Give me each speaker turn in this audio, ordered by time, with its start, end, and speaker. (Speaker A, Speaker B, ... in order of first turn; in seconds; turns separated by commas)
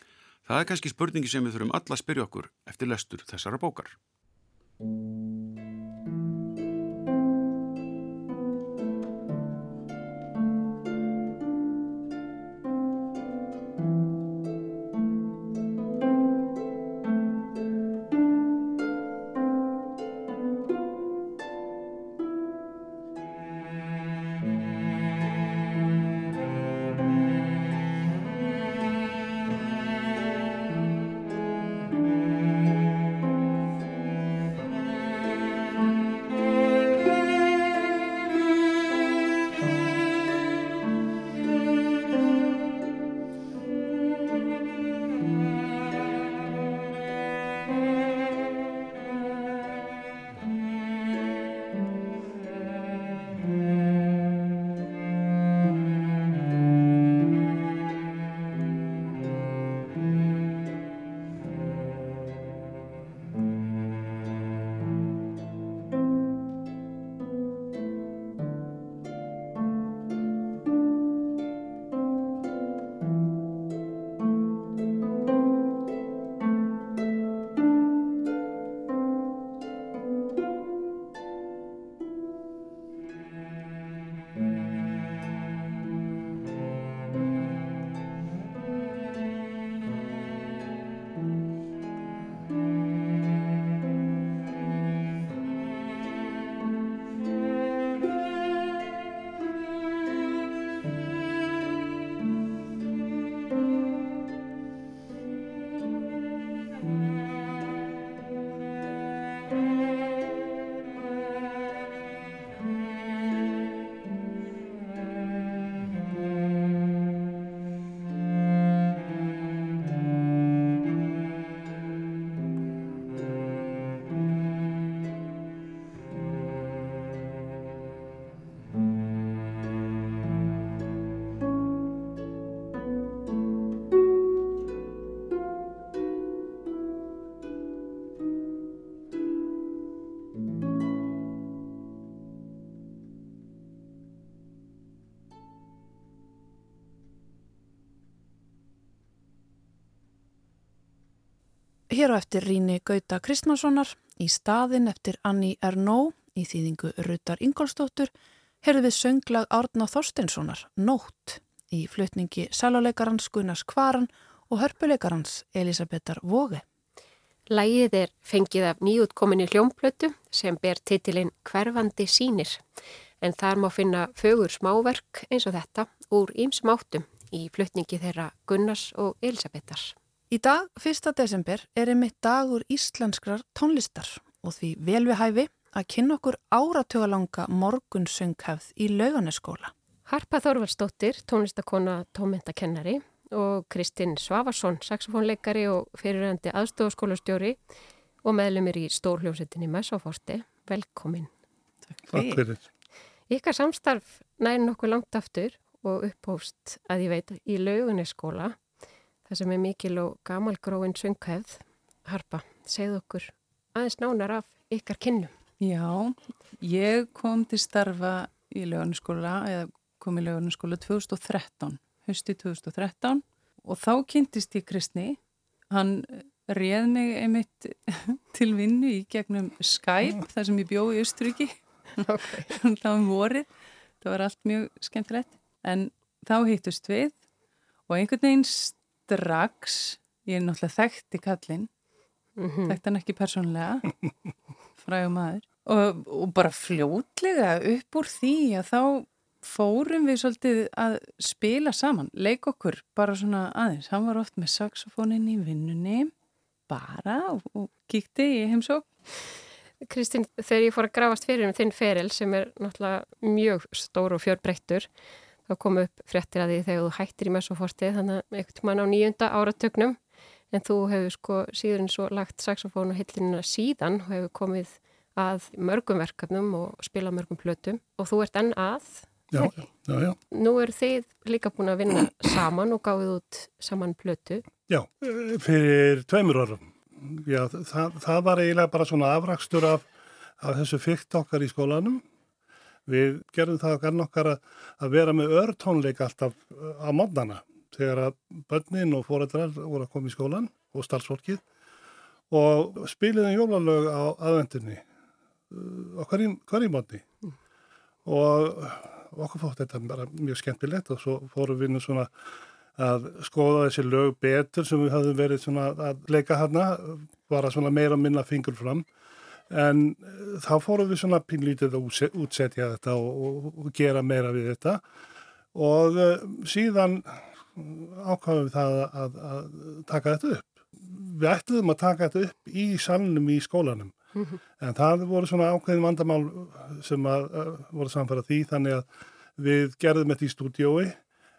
Speaker A: 0.5-4.0, Speaker B: 151.9-158.1, Speaker B: 158.6-166.6, Speaker C: 167.5-172.6, Speaker C: 173.2-179.9, Speaker B: 180.3-189.7, Speaker C: 190.1-197.6, Speaker C: 198.2-201.3, Speaker D: 201.9-202.4, Speaker E: 202.1-202.6, Speaker C: 203.3-208.6, Speaker C: 209.2-215.3, Speaker D: 215.6-225.2, Speaker D: 225.7-233.5, Speaker C: 232.0-232.5, Speaker D: 234.0-237.2, Speaker D: 237.9-241.7, Speaker C: 242.4-242.8, Speaker D: 242.7-243.9, Speaker D: 244.8-256.1, Speaker D: 256.7-258.9, Speaker C: 259.8-264.9, Speaker C: 265.5-270.0, Speaker C: 270.5-279.7, Speaker E: 279.3-280.2, Speaker C: 280.3-284.4, Speaker E: 284.7-289.9, Speaker E: 290.4-292.0, Speaker E: 292.9-301.4, Speaker E: 302.3-304.8, Speaker E: 305.5-307.1, Speaker E: 308.0-312.1, Speaker E: 312.7-318.9, Speaker E: 319.5-324.8, Speaker E: 325.5-333.9, Speaker E: 334.6-341.0